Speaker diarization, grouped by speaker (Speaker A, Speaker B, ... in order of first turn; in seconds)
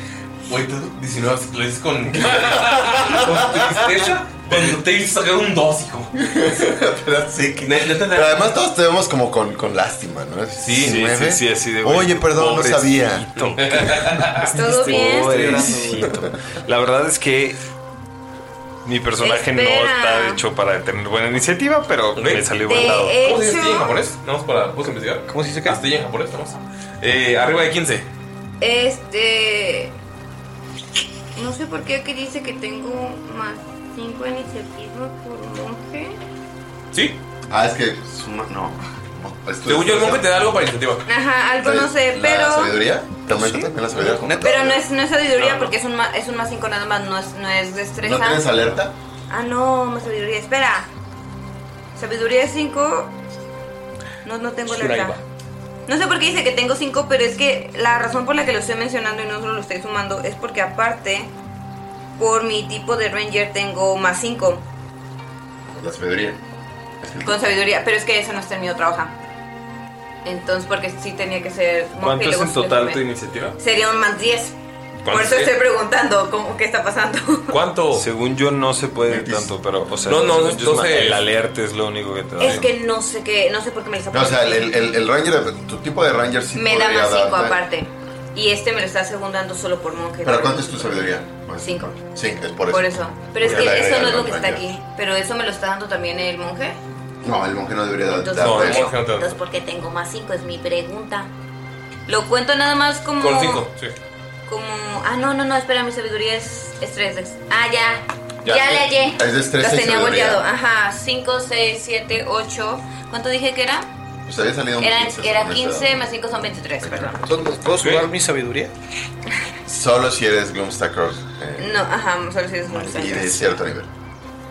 Speaker A: 0.5-6.1, 7.6-8.5, 10.6-11.0, 13.4-14.5, 22.1-22.5, 23.2-28.1, 36.9-37.2, 39.7-41.1, 45.3-45.7, 75.0-75.5, 77.5-78.1, 80.1-81.3, 98.3-99.4, 103.2-103.9, 117.8-118.1
Speaker B: 3.0-3.7, 6.2-13.3, 37.5-40.3, 41.6-44.8, 48.0-49.0, 65.7-66.4, 67.0-67.5, 79.1-79.5, 84.1-87.6, 90.2-94.7, 97.2-98.9, 108.5-110.5, 114.3-116.1, 116.8-117.5, 119.7-121.8, 122.7-123.9
Speaker C: 10.7-17.6, 18.9-23.2, 72.0-73.6, 77.9-82.7
Speaker D: 14.4-15.8, 19.2-20.4, 22.6-24.0, 28.6-29.9, 31.4-36.2, 41.1-42.8, 44.4-48.5, 49.3-50.9, 52.0-53.1, 54.2-55.2, 55.9-61.3, 62.2-64.6, 67.2-69.2, 70.2-73.0, 73.6-74.6, 75.1-77.6, 82.4-85.0, 86.5-91.0, 91.6-92.0, 92.7-96.8, 98.1-101.3, 102.1-103.6, 104.5-113.9, 114.8-117.4, 121.6-123.6
Speaker E: 15.3-16.1, 25.3-25.8, 43.4-44.6, 54.7-55.2, 117.2-118.7